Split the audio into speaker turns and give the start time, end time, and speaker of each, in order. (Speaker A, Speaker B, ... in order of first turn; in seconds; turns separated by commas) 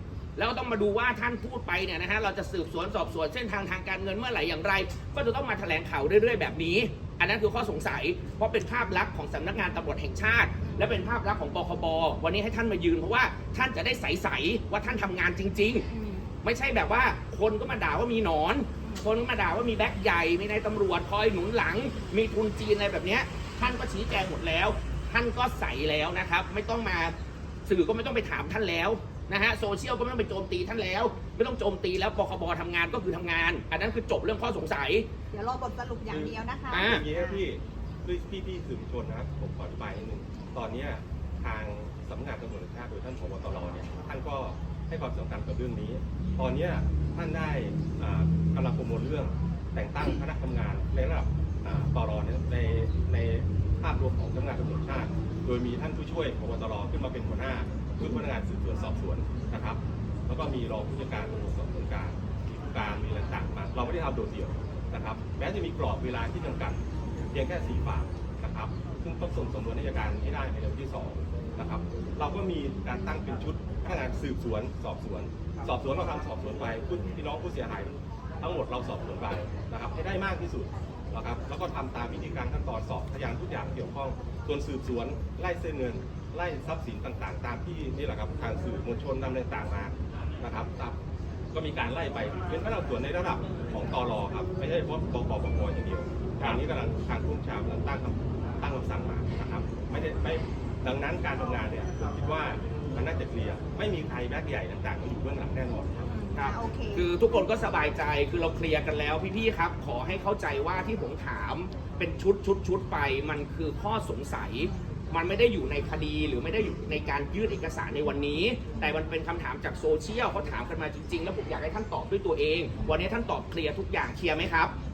Speaker A: 0.4-15.9, Speaker A: 16.4-27.1, Speaker A: 27.6-35.1, Speaker B: 35.3-37.4, Speaker C: 36.1-66.8, Speaker A: 36.7-37.0, Speaker C: 67.3-90.9, Speaker C: 91.5-106.1, Speaker A: 106.3-124.7, Speaker B: 106.4-107.0